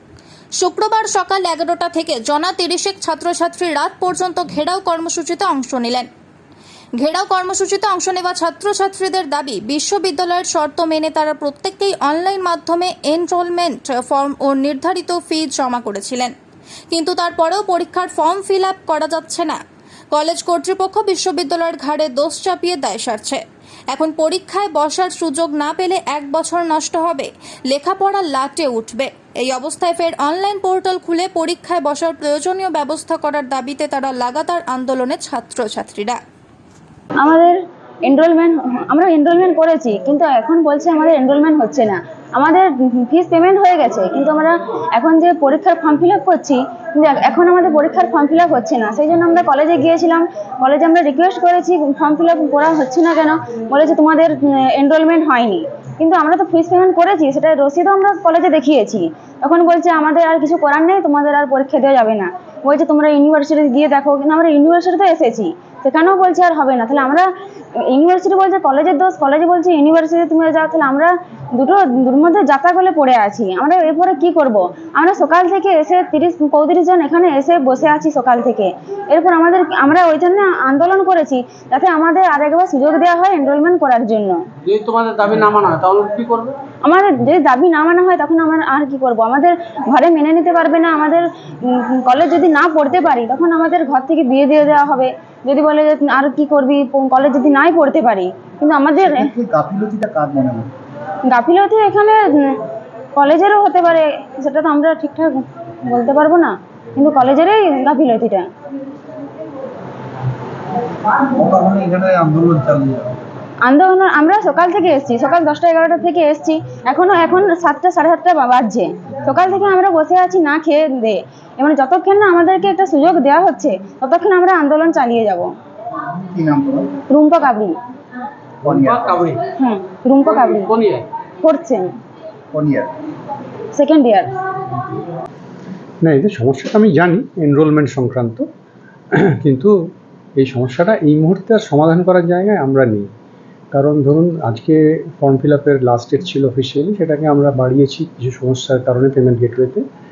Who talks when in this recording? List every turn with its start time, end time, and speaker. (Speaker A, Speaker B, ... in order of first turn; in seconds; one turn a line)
Speaker A: 0.6-6.1
Speaker A: 7.0-16.3
Speaker A: 16.9-19.6
Speaker A: 20.1-23.4
Speaker A: 23.9-36.2
Speaker B: 37.2-67.3
Speaker B: 67.9-84.4
Speaker C: 84.6-86.6
Speaker B: 86.8-99.3
Speaker D: 99.0-100.7
Speaker B: 101.3-102.6
Speaker B: 103.2-108.5
Speaker D: 111.3-113.1
Speaker B: 113.6-125.5
Speaker D: 126.0-127.0
Speaker B: 127.1-127.8
Speaker C: 128.6-129.4
Speaker D: 128.6-129.3
Speaker B: 129.6-130.7
Speaker C: 130.3-131.1
Speaker B: 131.4-131.9
Speaker D: 132.5-132.9
Speaker B: 133.7-134.3
Speaker E: 136.0-138.4
Speaker E: 139.1-139.7
Speaker E: 140.4-143.1
Speaker E: 143.7-149.8